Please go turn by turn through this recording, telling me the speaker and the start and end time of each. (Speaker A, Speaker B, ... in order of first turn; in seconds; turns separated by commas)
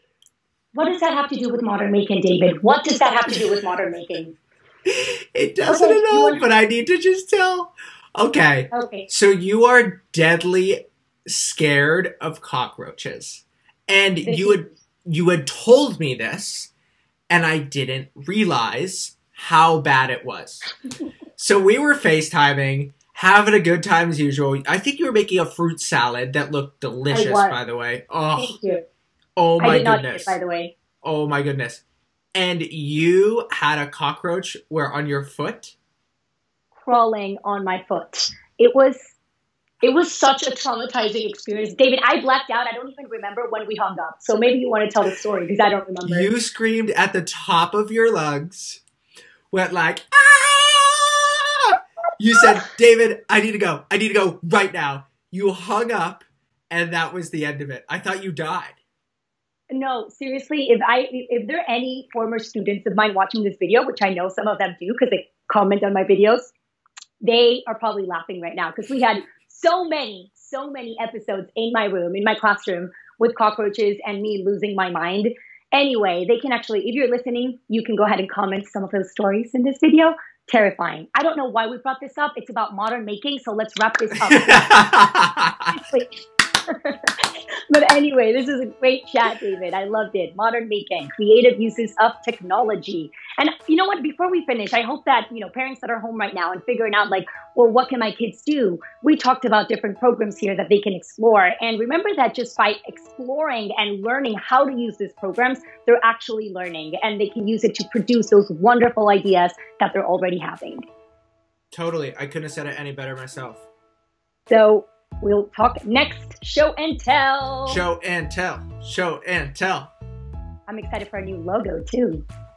Speaker A: 0.7-4.3, Speaker B: 4.9-16.7, Speaker A: 5.7-6.4, Speaker A: 8.7-9.1, Speaker A: 14.2-14.7, Speaker B: 17.3-20.7, Speaker B: 21.4-28.6, Speaker A: 27.1-27.6, Speaker A: 28.4-28.8, Speaker B: 29.4-30.4, Speaker A: 29.6-30.7, Speaker B: 31.0-31.8, Speaker B: 32.4-35.8, Speaker A: 36.8-39.1, Speaker A: 39.8-46.3, Speaker B: 46.0-48.8, Speaker B: 49.5-58.8, Speaker A: 59.7-66.5, Speaker A: 67.2-84.9, Speaker B: 84.2-85.8, Speaker A: 85.7-110.8, Speaker B: 111.7-113.7, Speaker A: 114.5-117.8, Speaker B: 117.7-119.9, Speaker A: 120.7-122.2